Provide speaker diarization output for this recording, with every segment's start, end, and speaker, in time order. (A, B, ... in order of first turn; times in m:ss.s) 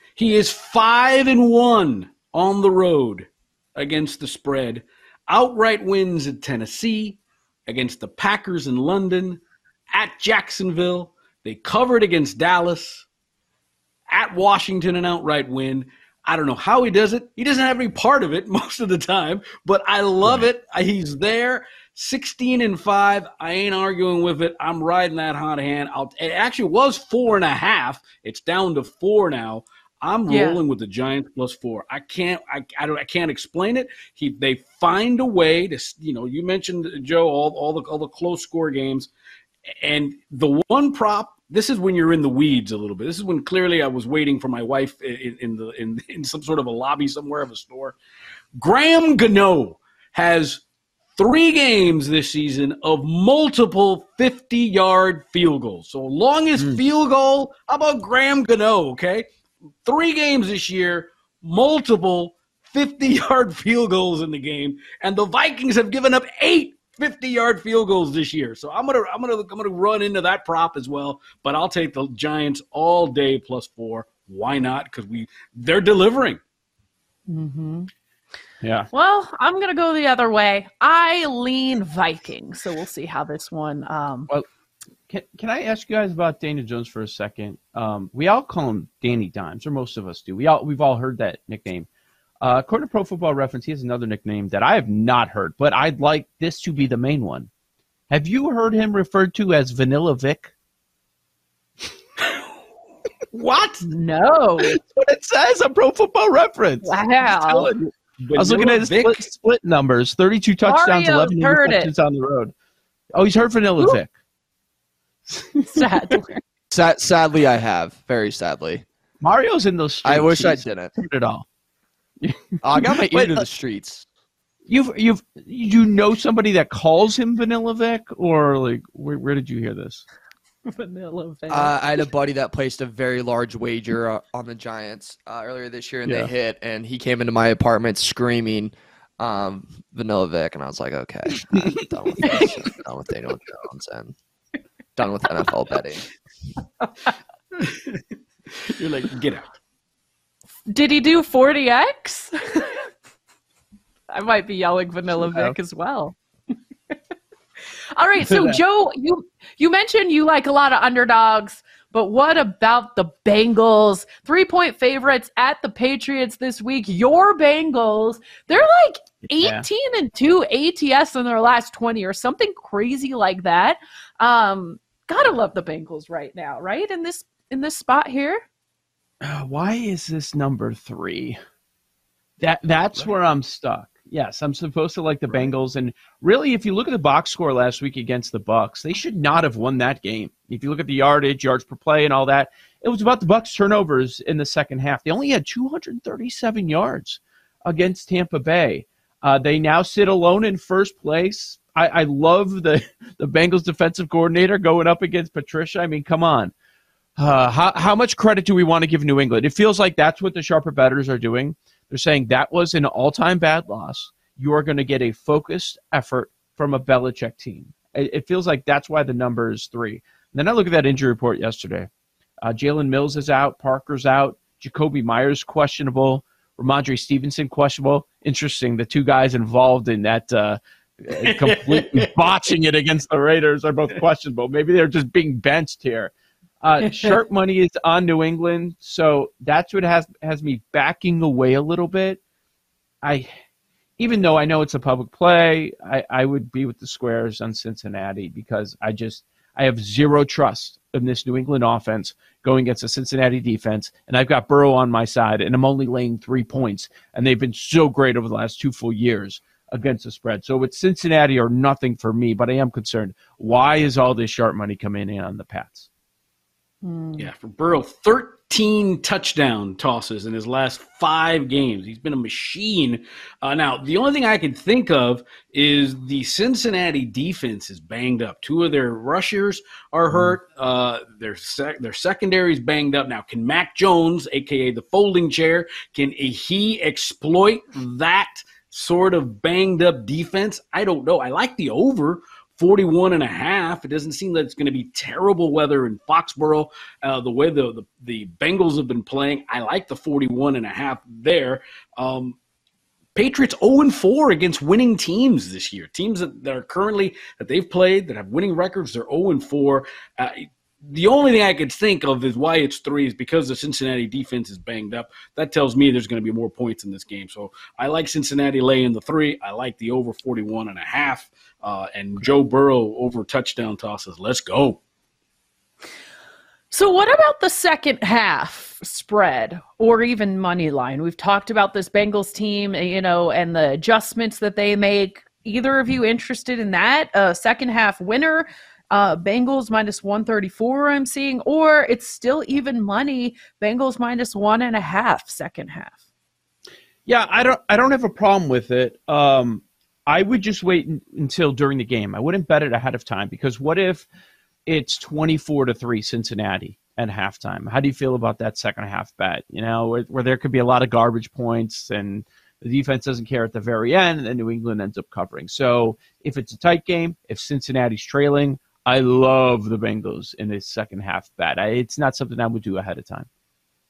0:00.2-0:09.4 A
0:09.9-0:13.1 A
0:14.1-0:39.1 A
0:30.3-0:30.6 B
0:39.8-0:48.0 A
0:48.6-0:50.6 A
0:51.2-0:59.2 A
0:56.6-0:56.8 C
0:59.9-1:16.4 A
1:17.3-1:17.9 B
1:18.6-1:18.9 C
1:18.9-1:24.3 B
1:25.1-1:31.9 C
1:32.4-1:37.5 C
1:38.1-1:40.5 C
1:43.3-1:43.8 A
1:43.8-1:44.8 B
1:44.6-1:52.5 C
1:46.8-1:47.7 B
1:48.2-1:49.3 A
1:50.6-1:51.9 B
1:53.1-1:54.1 C
1:55.6-1:56.4 B
1:56.7-1:58.8 D
1:59.2-2:01.4 C
2:00.0-2:00.9 D
2:02.2-2:03.4 C
2:02.6-2:04.0 D
2:04.7-2:10.0 C
2:10.7-2:11.8 B
2:11.5-2:24.1 D
2:25.0-2:26.0 D
2:28.7-2:29.4 A
2:30.7-2:32.9 B
2:34.1-2:36.2 B
2:35.2-2:35.6 C
2:38.0-2:58.4 B
2:49.3-2:49.7 C
2:59.2-3:01.4 C
3:02.4-3:26.5 C
3:27.2-3:41.9 C
3:42.4-4:02.2 C
3:51.2-3:52.1 A
4:03.0-4:03.3 C
4:04.0-4:25.9 C
4:26.8-4:27.3 B
4:27.2-5:02.4 A
5:03.2-5:24.8 A
5:26.7-5:45.9 B
5:47.1-5:54.1 C
5:54.7-6:13.3 C